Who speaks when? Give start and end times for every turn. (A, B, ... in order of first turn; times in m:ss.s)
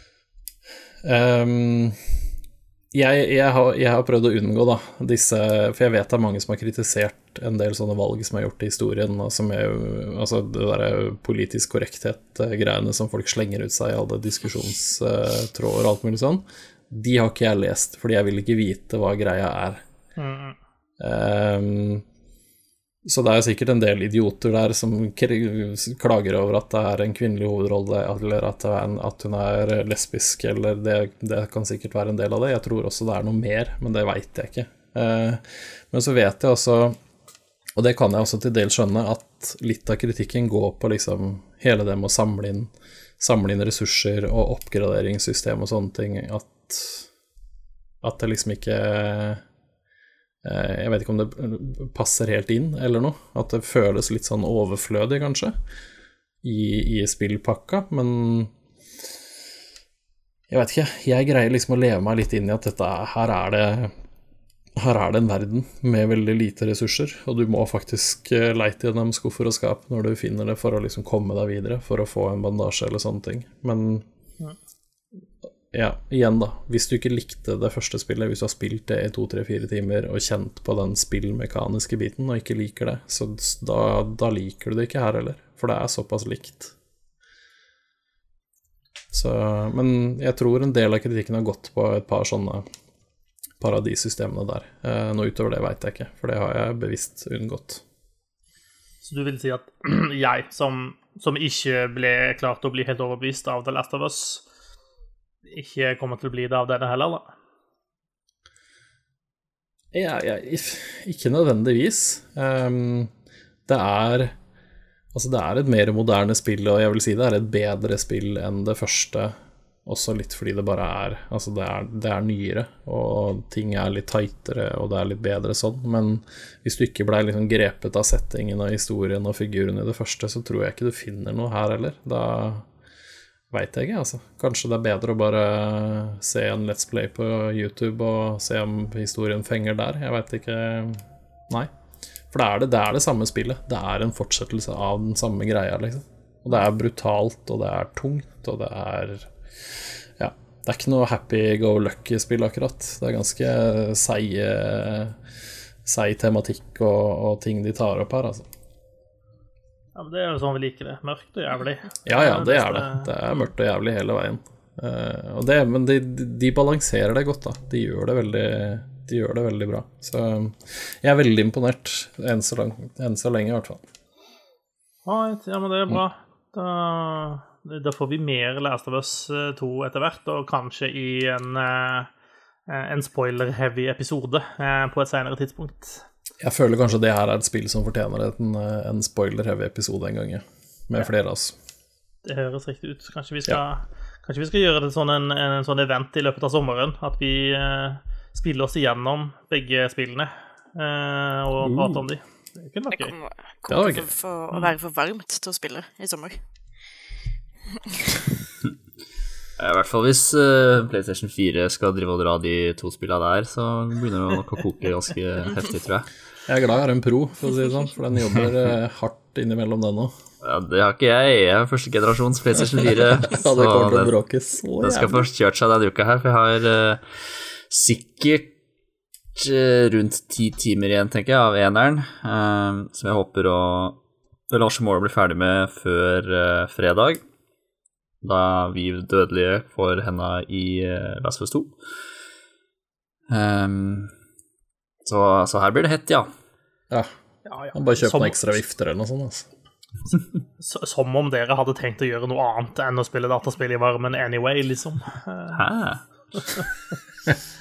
0:01.0-0:02.0 A
0:02.9-0:19.8 A
0:20.2-0:20.6 B
0:21.0-0:22.0 A
0:23.0-0:37.0 A
0:37.8-0:47.1 A
0:48.0-0:49.4 A
0:50.4-0:55.6 A
0:56.4-0:58.5 A
1:00.5-1:03.9 A
1:04.8-1:14.0 A
1:15.7-1:26.7 A
1:29.1-1:32.7 A
1:33.6-1:37.8 A
1:39.0-1:44.4 B
1:45.5-1:47.3 B
1:49.9-1:53.1 A
1:53.7-1:54.3 A
1:55.1-1:59.3 A
1:59.8-2:12.7 A
2:13.5-2:21.7 A
2:22.3-2:35.2 A
2:35.8-2:38.5 A
2:40.0-2:43.1 B
2:42.0-2:53.8 A
2:55.1-3:02.1 B
3:02.7-3:06.0 B
3:06.4-3:11.6 A
3:12.2-3:23.1 B
3:21.6-3:22.0 A
3:22.9-3:26.4 C
3:23.7-3:24.1 A
3:27.8-3:28.3 C
3:29.6-3:36.1 D
3:36.5-3:40.1 A
3:40.4-3:44.1 D
3:43.0-3:45.3 A
3:44.8-3:48.6 D
3:49.4-3:54.0 D
3:54.5-3:57.2 D
3:58.2-4:01.8 D
4:03.3-4:04.1 D
4:05.0-4:06.3 D
4:07.5-4:08.6 B
4:07.7-4:09.5 A
4:10.6-4:15.6 B
4:15.5-4:16.0 D
4:16.4-4:16.7 B